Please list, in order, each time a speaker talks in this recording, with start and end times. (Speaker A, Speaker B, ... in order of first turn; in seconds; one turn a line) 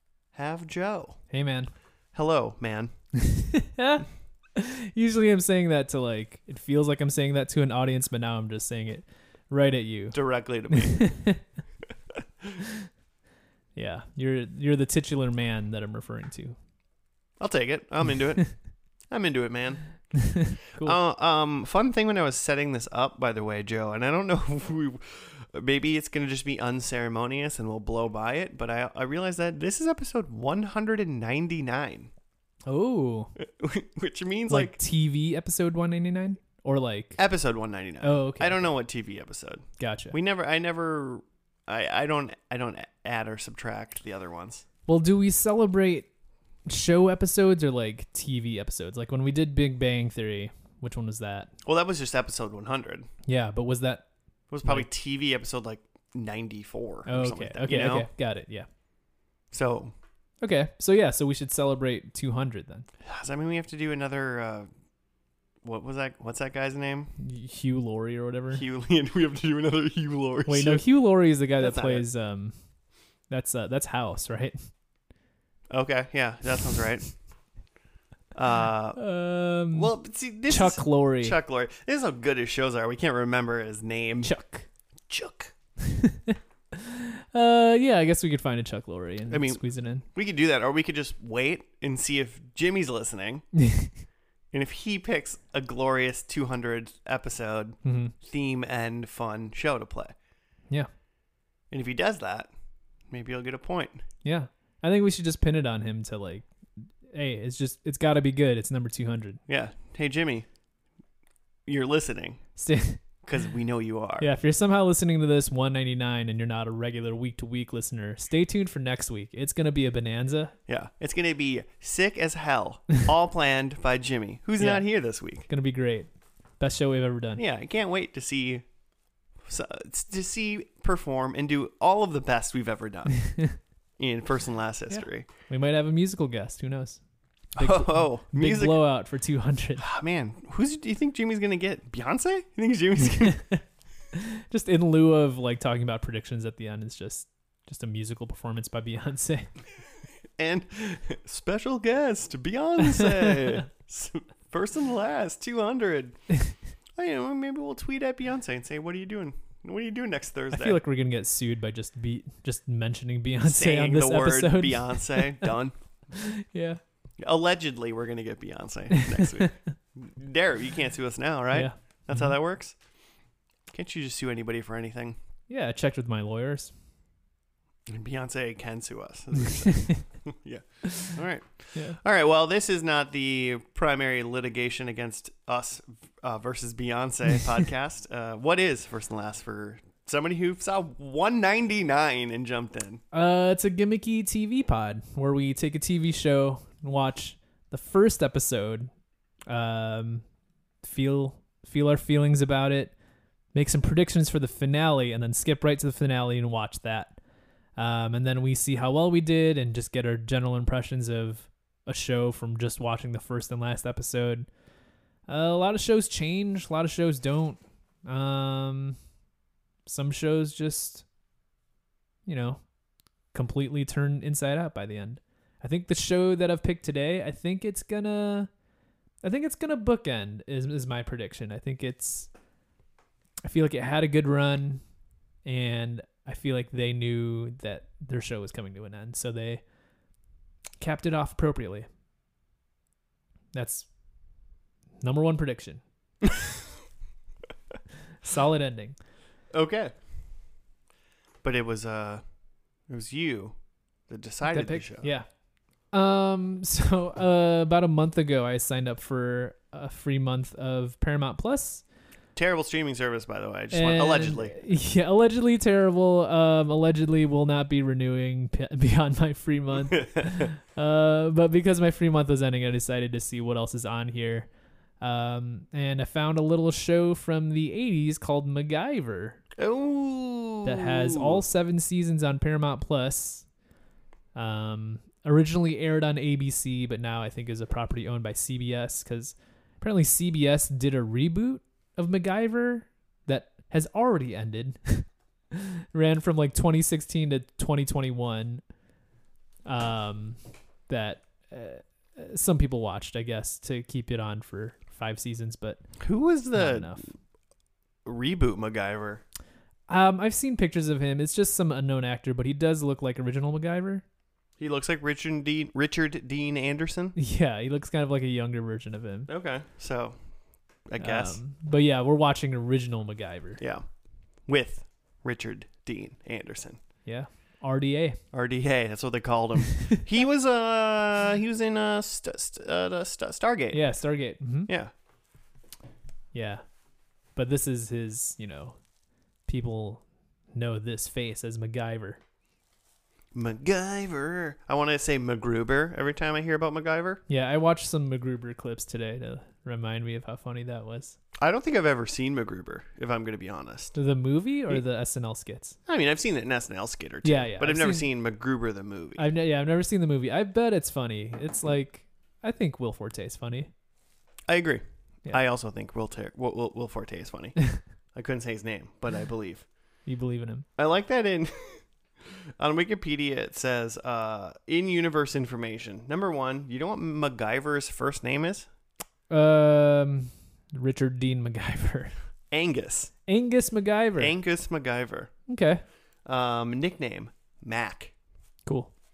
Speaker A: 0.3-1.4
Speaker B: 1.3-1.7
Speaker A: 2.1-3.4
Speaker B: 3.7-11.4
Speaker A: 10.1-11.5
Speaker B: 13.8-16.6
Speaker A: 17.4-32.1
Speaker B: 20.5-21.0
Speaker B: 32.7-33.3
Speaker A: 33.4-34.8
Speaker B: 34.5-37.2
Speaker A: 37.2-44.6
Speaker B: 38.0-38.7
Speaker B: 39.8-40.2
Speaker B: 44.9-51.5
Speaker A: 51.6-53.1
Speaker B: 53.3-54.9
Speaker A: 54.5-58.1
Speaker B: 57.1-58.7
Speaker A: 59.5-59.9
Speaker B: 60.4-62.9
Speaker A: 63.0-64.7
Speaker A: 65.6-67.2
Speaker B: 67.2-68.6
Speaker A: 68.5-72.1
Speaker B: 70.5-74.7
Speaker A: 75.7-77.6
Speaker A: 78.3-85.5
Speaker B: 79.0-81.4
Speaker B: 84.2-84.7
Speaker B: 87.3-90.1
Speaker A: 89.3-93.6
Speaker A: 94.5-100.2
Speaker B: 97.8-98.1
Speaker A: 101.7-102.5
Speaker A: 103.1-104.0
Speaker B: 104.2-109.4
Speaker A: 109.5-110.5
Speaker A: 111.7-114.3
Speaker B: 112.6-113.2
Speaker B: 114.2-120.5
Speaker A: 120.7-125.5
Speaker B: 124.6-127.4
Speaker A: 127.4-128.8
Speaker A: 129.3-135.3
Speaker B: 134.9-139.8
Speaker A: 137.6-138.9
Speaker A: 139.8-143.7
Speaker B: 144.5-149.6
Speaker A: 150.4-160.8
Speaker B: 160.5-165.5
Speaker A: 163.4-166.1
Speaker B: 166.5-166.8
Speaker A: 167.2-175.2
Speaker B: 171.5-172.4
Speaker B: 175.5-176.8
Speaker A: 177.9-193.0
Speaker B: 179.9-180.2
Speaker B: 181.7-182.0
Speaker B: 193.1-198.9
Speaker B: 199.5-214.6
Speaker B: 215.2-219.2
Speaker B: 219.9-221.1
Speaker B: 222.2-228.7
Speaker B: 229.2-232.5
Speaker B: 233.4-240.2
Speaker B: 240.8-241.9
Speaker B: 243.5-244.5
Speaker B: 245.0-245.8
Speaker B: 248.2-249.0
Speaker A: 249.5-250.1
Speaker A: 251.4-255.2
Speaker B: 254.4-261.9
Speaker A: 262.3-264.7
Speaker B: 263.7-279.5
Speaker A: 270.1-270.5
Speaker A: 279.6-281.4
Speaker B: 280.6-283.6
Speaker B: 284.3-298.8
Speaker B: 299.6-307.1
Speaker A: 306.0-307.3
Speaker A: 308.0-309.2
Speaker B: 309.9-314.0
Speaker A: 314.6-317.2
Speaker B: 317.2-319.3
Speaker A: 319.3-321.4
Speaker B: 321.0-323.6
Speaker A: 323.6-327.1
Speaker B: 327.1-328.2
Speaker A: 328.3-334.9
Speaker B: 333.7-334.7
Speaker B: 336.3-342.2
Speaker A: 343.3-347.2
Speaker B: 347.3-351.2
Speaker A: 351.4-354.0
Speaker B: 353.9-355.8
Speaker A: 355.9-359.3
Speaker B: 357.2-358.1
Speaker B: 359.2-363.7
Speaker A: 364.5-369.7
Speaker B: 370.1-370.7
Speaker A: 370.8-378.7
Speaker B: 379.3-382.4
Speaker A: 382.5-383.3
Speaker B: 383.3-384.4
Speaker A: 384.2-388.2
Speaker B: 385.5-385.8
Speaker B: 388.6-388.9